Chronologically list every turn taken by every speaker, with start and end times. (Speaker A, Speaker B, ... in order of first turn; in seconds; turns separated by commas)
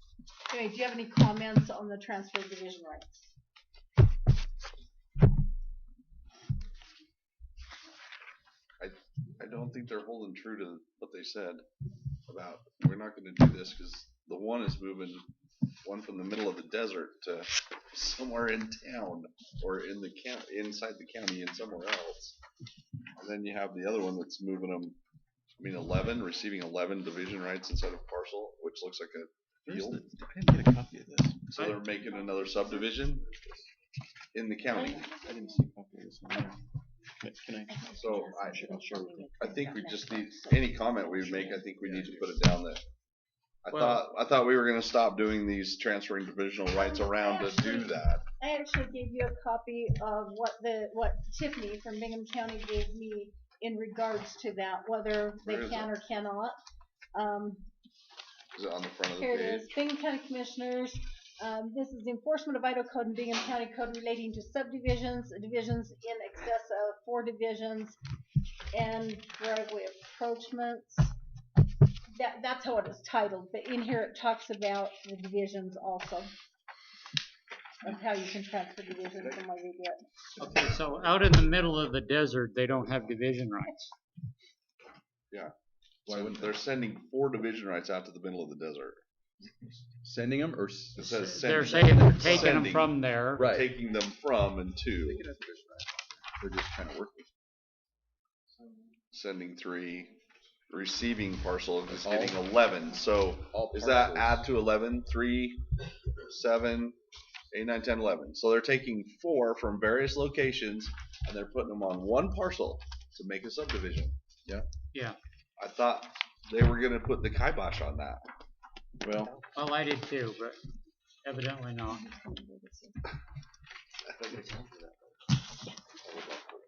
Speaker A: 0.5-3.3, Speaker B: 8.8-11.6, Speaker B: 12.3-15.2, Speaker B: 15.8-22.4, Speaker B: 23.2-25.0, Speaker B: 25.6-30.0, Speaker C: 29.7-31.6, Speaker D: 31.5-31.9, Speaker B: 31.6-33.3, Speaker B: 34.3-35.1, Speaker A: 34.8-35.1, Speaker C: 35.0-36.6, Speaker C: 37.2-37.9, Speaker A: 37.8-41.5, Speaker B: 37.9-38.7, Speaker C: 38.5-39.3, Speaker B: 39.4-42.8, Speaker C: 41.6-42.2, Speaker B: 43.6-48.2, Speaker D: 43.7-44.0, Speaker A: 46.7-56.5, Speaker B: 55.4-55.9, Speaker A: 57.1-57.6, Speaker B: 58.5-59.8, Speaker A: 59.2-68.0, Speaker A: 68.7-71.1, Speaker A: 72.1-76.3, Speaker A: 77.8-80.0, Speaker D: 80.4-83.8, Speaker C: 80.4-80.8, Speaker C: 86.0-86.5, Speaker B: 86.0-89.0, Speaker C: 90.0-91.0, Speaker B: 91.0-95.2, Speaker D: 91.0-93.5, Speaker C: 92.2-92.6, Speaker C: 93.3-93.7, Speaker C: 95.0-97.3, Speaker B: 99.1-100.2, Speaker B: 100.7-105.6, Speaker C: 101.9-102.4, Speaker C: 103.5-104.5, Speaker B: 106.2-107.0, Speaker B: 107.5-114.1, Speaker D: 114.9-115.2, Speaker B: 115.6-118.2, Speaker C: 119.0-119.4, Speaker D: 119.5-120.6, Speaker D: 121.2-122.0, Speaker A: 121.9-122.9, Speaker B: 124.2-124.8